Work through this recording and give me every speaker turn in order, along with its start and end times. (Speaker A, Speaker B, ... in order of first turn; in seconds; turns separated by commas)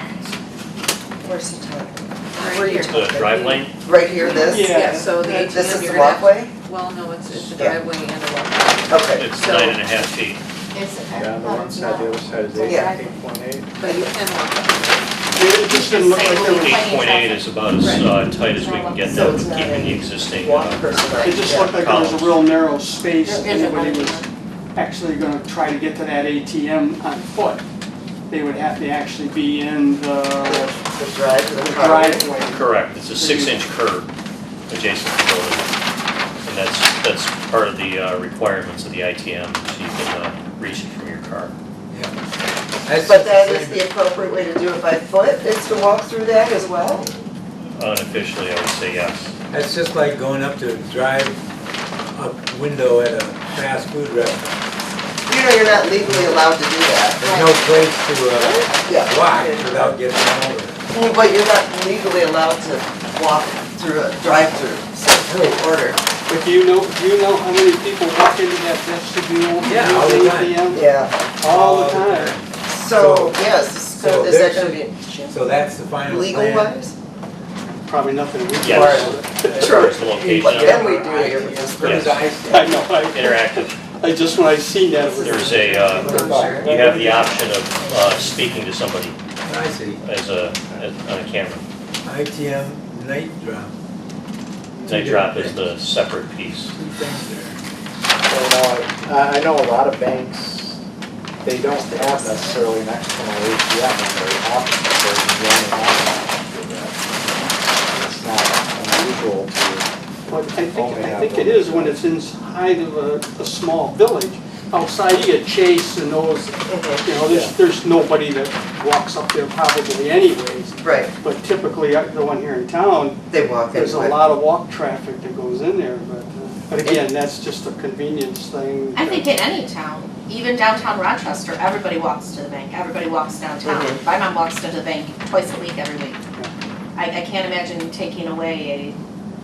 Speaker A: 1.2-6.5, Speaker B: 2.7-3.7, Speaker C: 4.2-5.4, Speaker D: 4.7-8.8, Speaker A: 7.3-7.8, Speaker A: 8.9-9.4, Speaker B: 9.2-10.4, Speaker E: 10.7-12.0, Speaker F: 11.1-13.8, Speaker A: 12.6-13.0, Speaker D: 13.8-15.1, Speaker C: 15.3-16.9, Speaker E: 15.8-17.5, Speaker A: 16.2-16.6, Speaker B: 16.4-22.5, Speaker E: 18.6-19.1, Speaker A: 19.0-21.8, Speaker C: 21.2-27.6, Speaker E: 23.2-24.2, Speaker C: 28.3-30.7, Speaker A: 30.4-32.5, Speaker C: 31.5-33.6, Speaker B: 32.5-34.1, Speaker B: 34.7-35.7, Speaker B: 36.4-41.5, Speaker G: 42.8-43.9, Speaker A: 43.0-47.0, Speaker B: 47.7-49.3, Speaker G: 49.5-51.4, Speaker G: 52.0-54.5, Speaker A: 55.2-57.5, Speaker G: 55.9-56.4, Speaker G: 57.2-60.9, Speaker A: 58.8-59.9, Speaker A: 60.9-66.0, Speaker C: 66.3-70.8, Speaker G: 69.6-70.8, Speaker A: 70.7-71.1, Speaker C: 71.4-72.4, Speaker G: 71.4-76.7, Speaker A: 72.7-76.9, Speaker C: 77.8-80.2, Speaker B: 78.6-80.8, Speaker A: 78.7-82.2, Speaker G: 78.8-82.8, Speaker B: 81.8-82.2, Speaker C: 82.4-87.1, Speaker B: 83.1-83.7, Speaker B: 85.0-89.2, Speaker A: 85.2-86.8, Speaker G: 86.0-88.7, Speaker G: 89.4-90.0, Speaker B: 90.0-91.6, Speaker G: 92.0-93.7, Speaker G: 94.7-95.7, Speaker B: 94.9-96.7, Speaker G: 96.7-97.6, Speaker F: 98.3-100.8, Speaker F: 101.4-107.2, Speaker F: 107.9-112.0, Speaker C: 110.3-129.4, Speaker A: 116.7-117.1, Speaker F: 117.2-117.5, Speaker A: 120.8-121.1, Speaker A: 123.3-124.2, Speaker A: 126.8-127.0, Speaker E: 128.9-136.2, Speaker A: 133.6-134.0, Speaker E: 136.9-139.0